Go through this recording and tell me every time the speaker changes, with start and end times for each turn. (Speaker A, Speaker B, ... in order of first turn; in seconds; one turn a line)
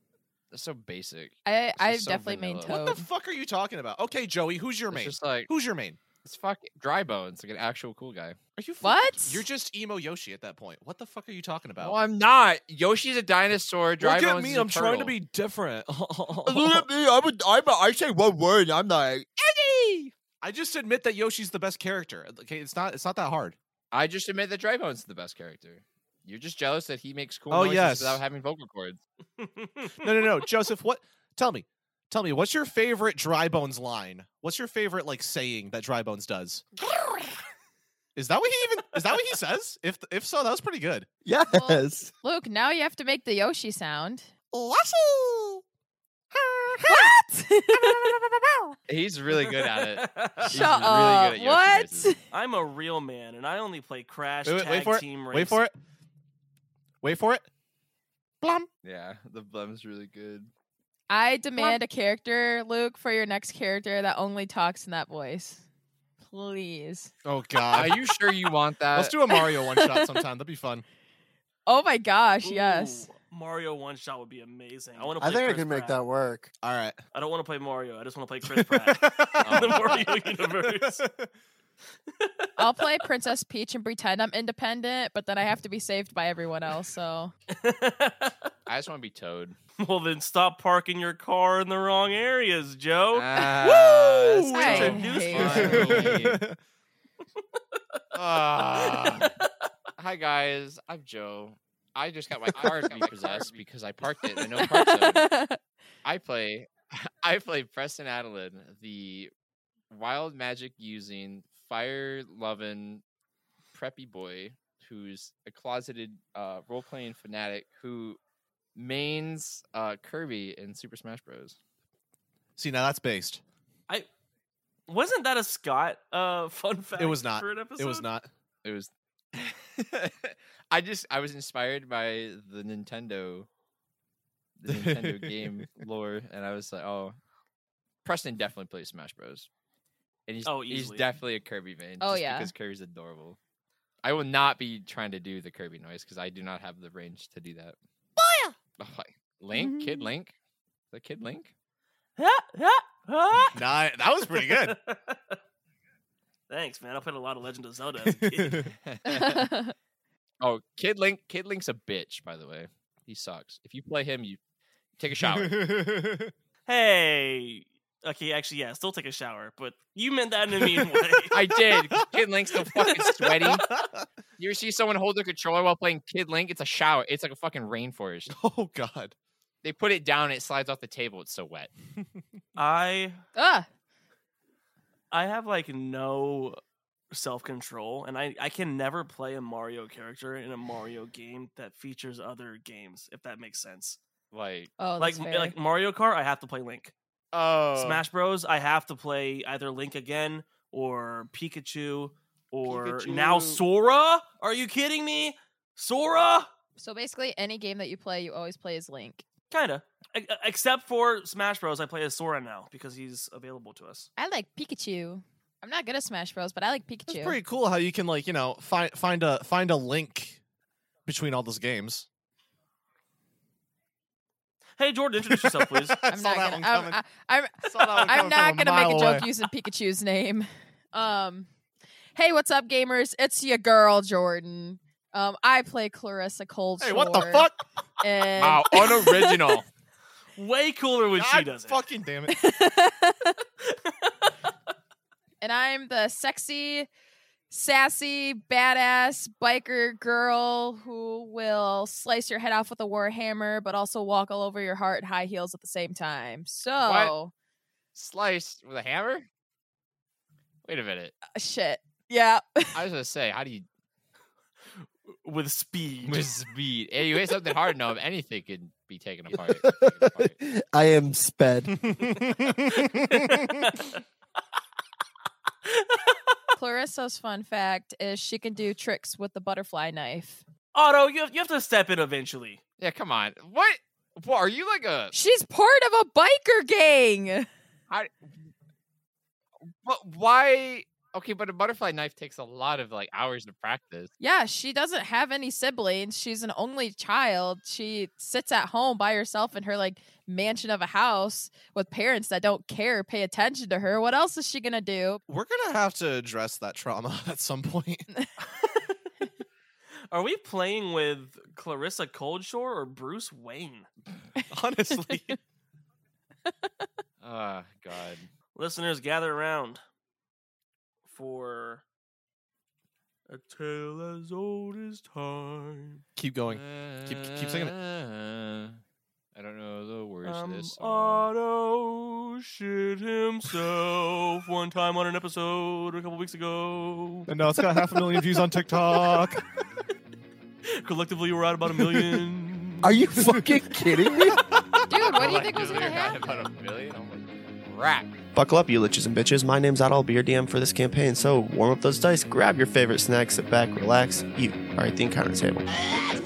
Speaker A: 0.5-2.7
Speaker B: 1.4-3.0
Speaker C: 2.7-6.0
Speaker A: 4.9-5.5
Speaker A: 6.2-8.4
Speaker C: 8.6-12.0
Speaker B: 8.8-9.5
Speaker A: 11.8-15.1
Speaker C: 14.0-16.9
Speaker D: 16.5-20.1
Speaker C: 20.4-23.6
Speaker A: 23.9-29.0
Speaker C: 27.5-28.2
Speaker E: 29.4-30.4
Speaker C: 30.0-36.7
Speaker C: 38.2-41.1
Speaker F: 41.2-42.1
Speaker B: 41.5-44.3
Speaker C: 44.5-45.6
Speaker C: 46.3-47.2
Speaker B: 46.8-48.1
Speaker C: 47.7-48.8
Speaker A: 48.9-52.1
Speaker E: 49.4-50.7
Speaker B: 50.5-52.2
Speaker E: 52.3-55.6
Speaker C: 54.5-55.7
Speaker C: 57.0-57.5
Speaker C: 58.4-58.7
Speaker A: 58.8-60.5
Speaker B: 61.1-65.6
Speaker B: 66.2-67.1
Speaker C: 67.2-68.3
Speaker A: 67.7-69.2
Speaker C: 68.9-70.8
Speaker B: 69.3-70.0
Speaker B: 71.7-73.1
Speaker E: 72.4-76.0
Speaker F: 75.2-76.5
Speaker C: 76.6-77.0
Speaker E: 77.1-81.0
Speaker C: 78.5-81.3
Speaker A: 79.4-80.1
Speaker E: 82.2-82.5
Speaker B: 82.6-87.3
Speaker E: 87.5-88.3
Speaker A: 88.7-89.6
Speaker E: 89.8-96.2
Speaker A: 93.1-96.4
Speaker B: 94.5-96.0
Speaker C: 95.3-96.6
Speaker A: 98.1-99.3
Speaker A: 100.0-105.3
Speaker E: 102.5-103.5
Speaker C: 102.8-103.1
Speaker B: 104.6-105.6
Speaker A: 106.0-109.3
Speaker A: 109.9-113.0
Speaker A: 113.7-118.2
Speaker A: 118.8-121.6
Speaker C: 122.6-123.4
Speaker E: 124.9-128.1
Speaker C: 127.0-128.3
Speaker A: 128.6-133.5
Speaker A: 134.6-137.2
Speaker C: 134.7-135.8
Speaker A: 138.0-139.5
Speaker A: 140.3-143.4
Speaker E: 140.4-141.1
Speaker B: 142.0-142.5
Speaker A: 144.0-147.8
Speaker A: 148.8-150.3
Speaker B: 149.5-150.1
Speaker A: 150.9-151.5
Speaker E: 152.2-153.6
Speaker C: 153.5-154.8
Speaker E: 154.4-155.3
Speaker E: 156.5-158.7
Speaker C: 158.0-158.7
Speaker A: 158.9-159.5
Speaker B: 159.1-159.7
Speaker A: 160.4-164.4
Speaker A: 165.0-165.6
Speaker C: 165.2-166.3
Speaker E: 166.7-171.3
Speaker C: 170.7-174.1
Speaker A: 171.3-173.7
Speaker A: 174.4-178.3
Speaker C: 178.3-179.2
Speaker A: 179.6-181.7
Speaker E: 182.6-183.2
Speaker B: 183.3-183.7
Speaker E: 185.1-186.6
Speaker E: 187.1-194.0
Speaker A: 194.3-194.7
Speaker B: 194.8-195.6
Speaker E: 195.0-196.9
Speaker A: 197.3-198.1
Speaker E: 197.8-206.5
Speaker A: 202.6-203.6
Speaker B: 206.8-209.2
Speaker E: 209.5-214.1
Speaker B: 214.2-217.4
Speaker C: 217.1-220.4
Speaker C: 221.1-222.1
Speaker E: 224.8-226.0
Speaker C: 225.2-227.0
Speaker B: 226.1-231.5
Speaker C: 227.6-229.3
Speaker B: 232.2-237.5
Speaker C: 236.8-237.6
Speaker B: 238.0-239.6
Speaker A: 238.4-239.7
Speaker E: 240.4-241.8
Speaker C: 241.2-242.4
Speaker B: 242.3-243.4
Speaker B: 245.4-246.9
Speaker B: 247.5-257.3
Speaker A: 256.8-257.1
Speaker A: 257.9-259.3
Speaker A: 260.6-261.1
Speaker B: 261.4-262.8
Speaker A: 262.7-263.7
Speaker E: 265.2-266.3
Speaker A: 266.0-270.4
Speaker F: 269.5-271.8
Speaker C: 271.7-273.8
Speaker E: 272.8-274.0
Speaker E: 275.7-276.4
Speaker B: 276.6-280.4
Speaker E: 280.7-282.6
Speaker A: 282.8-285.1
Speaker B: 285.1-287.5
Speaker A: 287.9-288.2
Speaker A: 289.9-294.1
Speaker B: 294.2-305.2
Speaker C: 305.3-308.1
Speaker E: 308.6-309.0
Speaker E: 310.1-313.9
Speaker C: 314.5-315.4
Speaker A: 317.2-318.3
Speaker E: 318.6-319.8
Speaker E: 321.1-321.8
Speaker E: 323.3-326.0
Speaker C: 326.2-327.8
Speaker A: 326.5-328.8
Speaker A: 329.4-331.3
Speaker E: 330.2-337.3
Speaker C: 337.3-339.4
Speaker E: 338.9-339.3
Speaker E: 340.7-342.9
Speaker C: 341.8-342.2
Speaker F: 342.8-344.4
Speaker C: 343.2-343.6
Speaker C: 344.2-344.8
Speaker B: 344.9-346.2
Speaker A: 345.0-348.1
Speaker F: 348.3-355.7